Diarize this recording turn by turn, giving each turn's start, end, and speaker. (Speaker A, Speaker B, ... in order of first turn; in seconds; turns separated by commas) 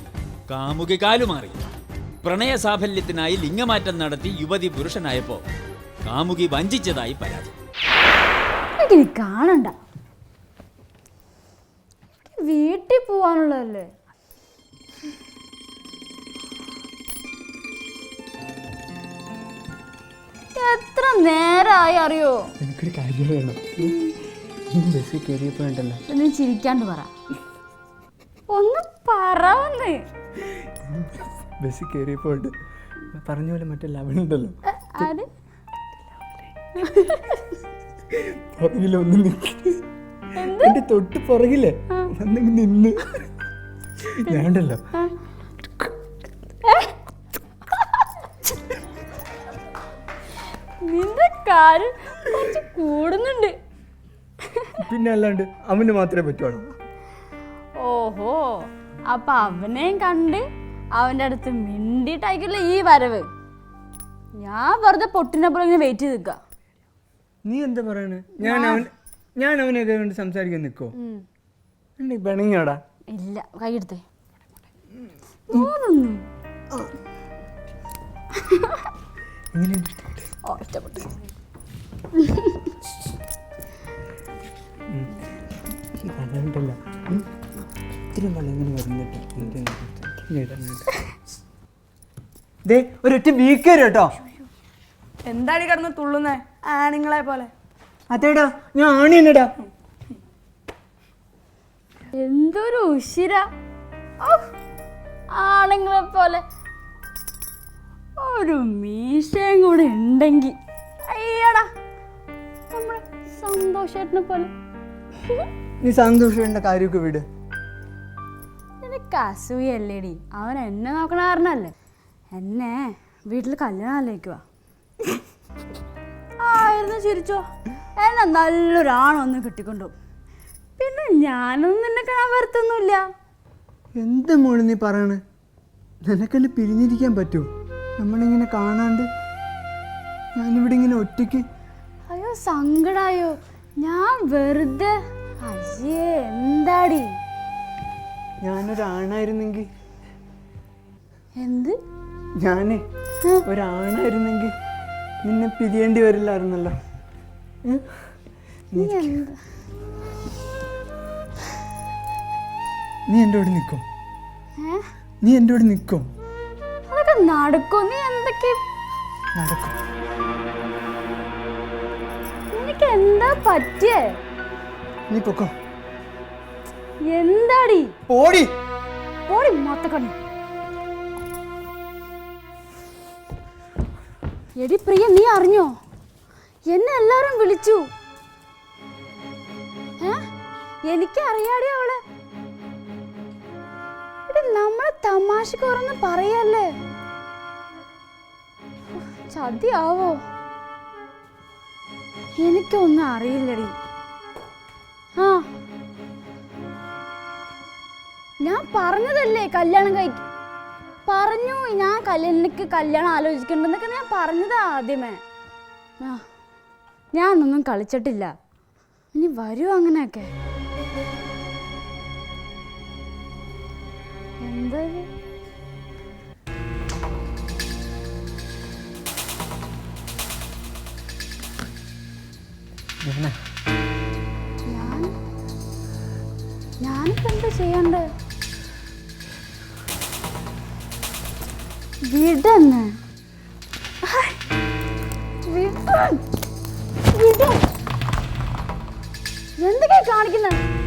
Speaker A: 0.5-1.6, Speaker A: 2.2-5.4, Speaker A: 6.0-7.5, Speaker B: 8.8-9.7, Speaker B: 12.3-13.9, Speaker B: 20.5-22.4, Speaker C: 22.6-23.9, Speaker B: 23.8-24.1, Speaker C: 24.7-26.0, Speaker B: 26.1-27.1, Speaker B: 28.5-30.0, Speaker C: 30.6-32.5, Speaker C: 33.1-35.1, Speaker B: 34.8-35.3, Speaker B: 36.8-37.5, Speaker C: 38.1-39.8, Speaker B: 40.3-40.8, Speaker C: 40.6-43.3, Speaker C: 44.0-44.8, Speaker B: 46.7-46.9, Speaker B: 47.8-48.0, Speaker B: 50.8-53.5, Speaker C: 54.8-56.7, Speaker B: 57.8-63.3, Speaker B: 64.4-66.4, Speaker C: 67.4-70.9, Speaker B: 68.4-68.8, Speaker C: 72.0-72.8, Speaker B: 73.1-74.0, Speaker B: 75.5-76.2, Speaker B: 78.4-78.8, Speaker C: 79.5-80.2, Speaker B: 80.4-81.1, Speaker B: 82.2-82.6, Speaker C: 85.9-87.2, Speaker C: 88.1-90.9, Speaker C: 92.6-94.1, Speaker D: 95.3-97.5, Speaker C: 98.1-99.5, Speaker B: 102.1-103.4, Speaker B: 105.3-106.4, Speaker B: 108.2-111.7, Speaker B: 112.7-114.5, Speaker C: 115.8-117.2, Speaker B: 118.8-121.7, Speaker B: 122.3-124.4, Speaker B: 126.4-127.4, Speaker B: 128.0-129.9, Speaker B: 130.8-133.1, Speaker C: 134.0-135.2, Speaker C: 136.0-139.1, Speaker C: 140.3-141.4, Speaker B: 142.1-147.1, Speaker C: 148.4-149.7, Speaker B: 151.4-151.8, Speaker C: 152.4-152.8, Speaker C: 153.4-154.5, Speaker C: 155.2-156.8, Speaker C: 158.7-159.1, Speaker B: 158.7-159.4, Speaker C: 163.1-163.8, Speaker B: 164.6-164.8, Speaker C: 165.2-166.1, Speaker B: 166.9-168.6, Speaker C: 169.3-169.8, Speaker B: 172.5-174.1, Speaker C: 175.1-175.5, Speaker B: 177.1-177.9, Speaker C: 178.1-178.5, Speaker B: 179.3-180.1, Speaker B: 184.6-185.7, Speaker B: 186.7-187.8, Speaker B: 190.8-192.0, Speaker B: 194.3-196.7, Speaker B: 198.9-200.2, Speaker B: 202.4-203.7, Speaker B: 205.2-205.4, Speaker B: 208.4-210.2, Speaker B: 211.1-215.2, Speaker B: 217.1-218.3, Speaker B: 219.1-220.3, Speaker B: 224.4-225.1, Speaker C: 233.0-233.3, Speaker B: 234.7-235.1, Speaker B: 236.8-238.1, Speaker B: 242.1-242.9, Speaker B: 244.0-244.4, Speaker B: 245.5-246.2, Speaker B: 247.1-247.6, Speaker B: 249.6-250.6